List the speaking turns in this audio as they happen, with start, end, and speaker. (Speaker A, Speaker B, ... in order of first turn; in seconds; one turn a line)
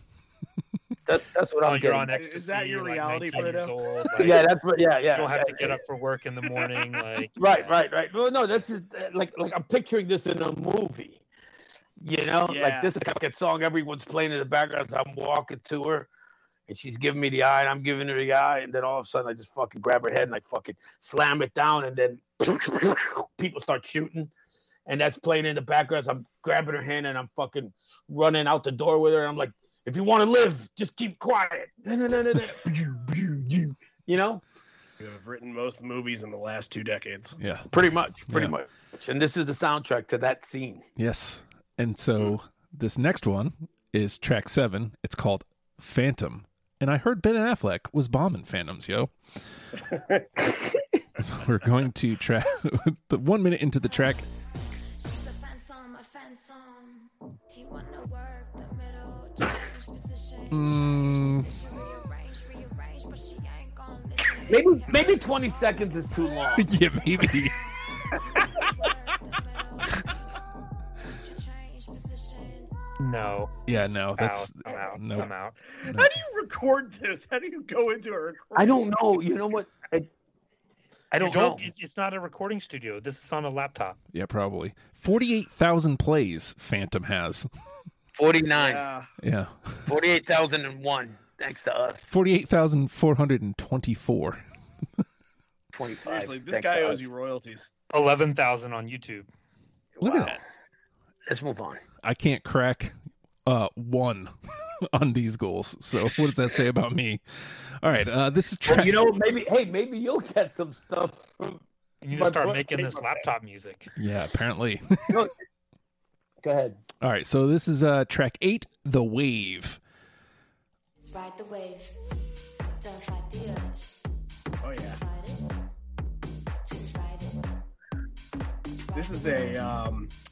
Speaker A: 1.1-2.2
Speaker B: 1.6-4.5
Speaker C: 2.1-3.8
Speaker A: 4.2-5.8
Speaker B: 5.1-7.7
Speaker A: 7.4-11.2
Speaker A: 12.0-16.1
Speaker C: 12.4-12.9
Speaker A: 16.7-24.3
Speaker A: 24.9-34.4
Speaker C: 35.0-37.4
Speaker D: 37.4-37.7
Speaker A: 37.7-40.9
Speaker D: 38.3-38.5
Speaker D: 41.0-49.1
Speaker C: 49.8-50.4
Speaker A: 50.5-50.8
Speaker D: 51.2-54.2
Speaker E: 55.0-65.5
Speaker D: 60.5-61.6
Speaker A: 64.4-66.7
Speaker D: 66.5-67.5
Speaker E: 66.8-67.5
Speaker E: 68.3-69.8
Speaker E: 71.2-72.7
Speaker B: 73.0-73.5
Speaker D: 73.7-76.1
Speaker B: 74.1-75.6
Speaker C: 75.8-79.0
Speaker A: 78.5-80.1
Speaker A: 81.1-81.7
Speaker B: 81.2-84.0
Speaker D: 84.1-87.5
Speaker A: 88.1-88.8
Speaker C: 88.5-89.1
Speaker D: 89.2-89.8
Speaker A: 89.9-92.1
Speaker D: 92.1-94.4
Speaker A: 95.7-97.1
Speaker C: 96.0-97.7
Speaker B: 97.9-99.3
Speaker A: 100.0-100.4
Speaker D: 100.0-100.4
Speaker A: 101.3-101.8
Speaker D: 102.0-102.9
Speaker D: 103.5-104.3
Speaker D: 104.9-109.0
Speaker A: 108.7-111.6
Speaker B: 112.0-113.9
Speaker A: 112.1-113.3
Speaker D: 114.0-115.2
Speaker A: 115.1-115.4
Speaker A: 116.4-116.8
Speaker D: 117.0-119.8
Speaker E: 121.1-122.0
Speaker E: 122.8-123.9
Speaker C: 124.6-125.0
Speaker E: 124.8-125.5
Speaker E: 126.7-127.4
Speaker C: 128.9-130.1
Speaker E: 128.9-129.5